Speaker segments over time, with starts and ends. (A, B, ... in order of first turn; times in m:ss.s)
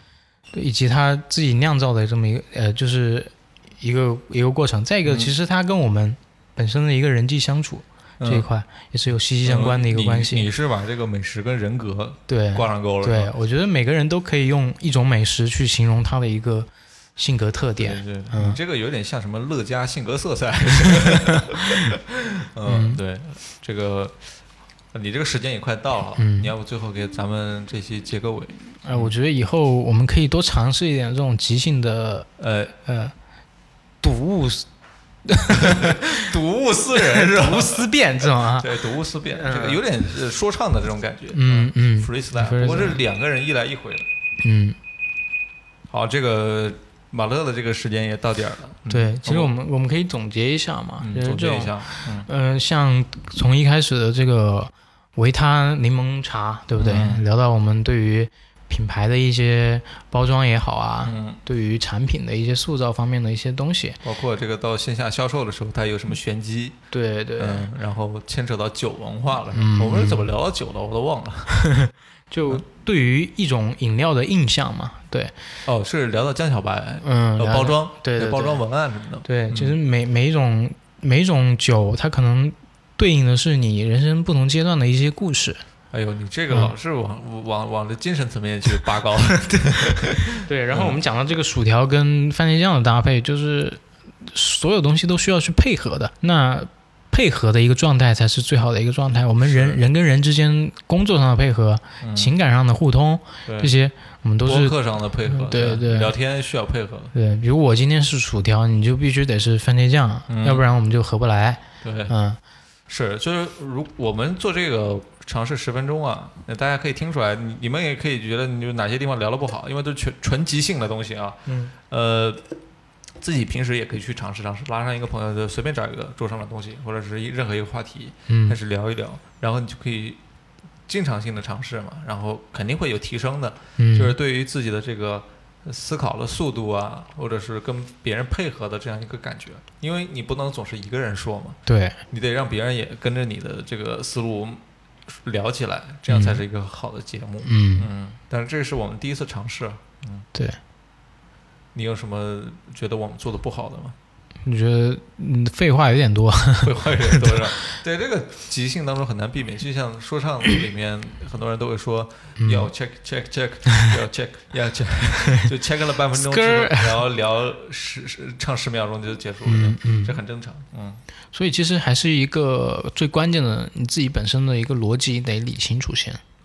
0:00.5-0:10.5 A
0:05.1-0:05.3 B
0:08.2-0:08.5 B
0:09.4-0:13.3 B
0:12.3-0:18.6 A
0:17.8-0:24.3 B
0:22.6-0:23.0 A
0:24.9-0:29.1 B
0:26.2-0:26.5 A
0:28.8-0:32.3 A
0:32.4-0:32.7 B
0:32.8-0:33.1 A
0:34.0-0:34.7 A
0:35.2-0:36.3 A
0:35.5-0:44.1 B
0:36.9-0:39.8 A
0:41.3-0:43.0 A
0:44.4-0:44.8 A
0:45.9-0:49.5 B
0:48.9-1:04.0 A
0:51.0-0:52.3 B
0:56.8-0:57.2 B
1:01.0-1:01.4 B
1:04.0-1:06.8 B
1:06.9-1:07.7 A
1:07.4-1:11.5 B
1:09.5-1:10.2 A
1:11.5-1:15.3 A
1:15.6-1:19.8 B
1:17.0-1:18.6 A
1:19.2-1:25.6 A
1:25.9-1:31.0 B
1:29.8-1:46.1 A
1:39.4-1:39.8 B
1:42.0-1:42.3 B
1:43.4-1:43.7 B
1:44.4-1:47.1 B
1:47.1-1:52.4 A
1:50.3-1:50.6 B
1:51.8-1:52.1 B
1:52.9-2:02.4 B
2:01.5-2:01.7 A
2:03.2-2:10.2 B
2:08.3-2:08.6 A
2:10.9-2:21.6 B
2:13.8-2:14.1 A
2:21.6-2:22.0 A
2:22.1-2:30.2 B
2:26.1-2:26.4 A
2:27.4-2:27.9 A
2:31.7-2:34.0 B
2:34.4-2:37.7 A
2:36.6-2:51.0 B
2:42.4-2:42.7 A
2:46.1-2:47.0 A
2:49.4-2:50.2 A
2:51.3-2:56.2 A